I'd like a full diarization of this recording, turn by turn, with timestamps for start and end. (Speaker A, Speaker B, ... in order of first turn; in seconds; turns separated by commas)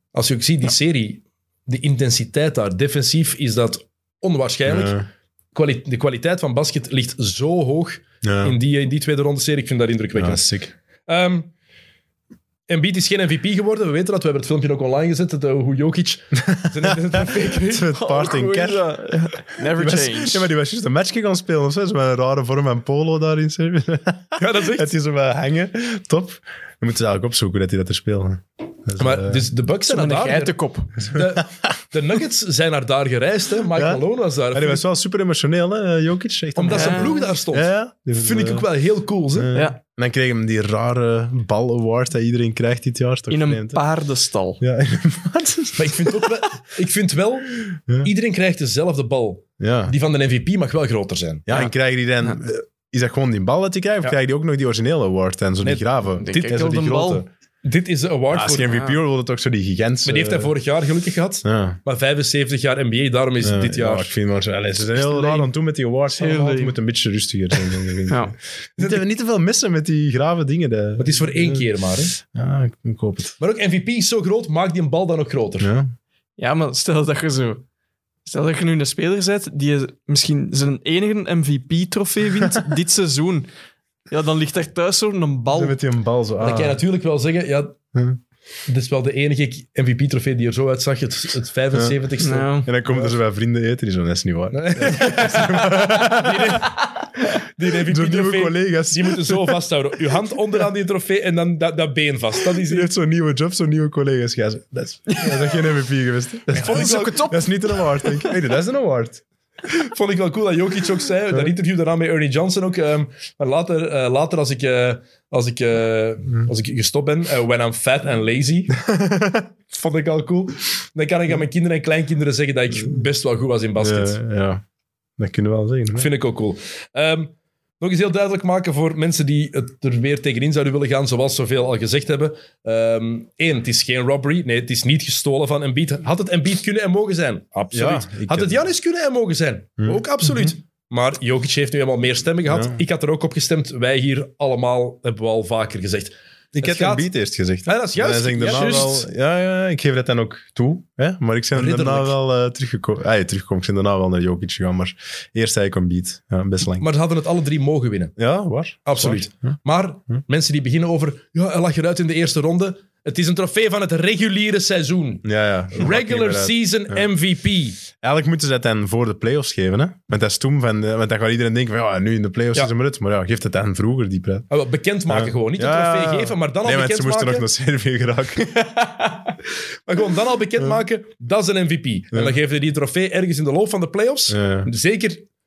Speaker A: 0.1-5.0, Speaker B: 4.7-5.1, Speaker A: 5.5-10.5, Speaker B: 8.2-8.6, Speaker B: 10.2-10.7, Speaker A: 11.1-11.5, Speaker A: 12.7-17.9, Speaker B: 16.4-29.5, Speaker C: 17.9-20.5, Speaker A: 24.4-24.9, Speaker A: 29.0-34.8, Speaker C: 29.9-31.0, Speaker B: 31.0-31.6, Speaker B: 33.7-38.7, Speaker A: 36.5-39.5, Speaker C: 36.7-37.3, Speaker B: 39.3-43.8, Speaker C: 39.5-39.8, Speaker C: 43.3-44.6, Speaker B: 44.6-46.4, Speaker A: 45.7-51.5, Speaker B: 49.6-49.9, Speaker B: 51.5-57.3, Speaker A: 55.6-56.4, Speaker C: 56.2-57.2, Speaker A: 57.6-58.8, Speaker B: 58.3-60.5, Speaker C: 58.7-59.0, Speaker A: 60.0-64.1, Speaker B: 61.4-61.8, Speaker B: 63.4-71.7, Speaker A: 65.0-65.4, Speaker C: 66.1-66.8, Speaker C: 67.5-68.3, Speaker A: 68.8-69.0, Speaker A: 71.0-72.2, Speaker B: 72.2-73.4, Speaker A: 73.4-75.7, Speaker B: 75.6-75.9, Speaker C: 76.4-77.6, Speaker C: 78.2-83.5, Speaker C: 84.1-85.8, Speaker B: 85.5-86.8, Speaker A: 86.4-87.8, Speaker B: 87.9-88.2, Speaker A: 88.7-93.1, Speaker C: 92.2-92.7, Speaker B: 92.6-96.7, Speaker A: 94.5-102.9, Speaker B: 97.8-99.6, Speaker B: 102.6-109.2, Speaker C: 105.1-105.7, Speaker A: 106.5-107.3, Speaker C: 106.5-108.4, Speaker A: 109.8-118.8, Speaker B: 118.8-119.5, Speaker A: 119.7-124.2, Speaker B: 123.8-124.6, Speaker B: 125.2-126.1, Speaker A: 125.9-147.1, Speaker B: 137.7-138.6, Speaker B: 139.8-140.5, Speaker B: 142.5-142.8, Speaker B: 146.5-156.9, Speaker A: 147.6-149.0, Speaker C: 148.4-149.0, Speaker A: 151.5-152.2, Speaker A: 156.8-158.1, Speaker B: 158.2-159.5, Speaker A: 158.8-167.8, Speaker B: 165.2-167.1, Speaker B: 167.9-174.5, Speaker A: 174.5-177.5, Speaker B: 175.1-178.8, Speaker A: 179.8-185.2, Speaker B: 184.3-184.7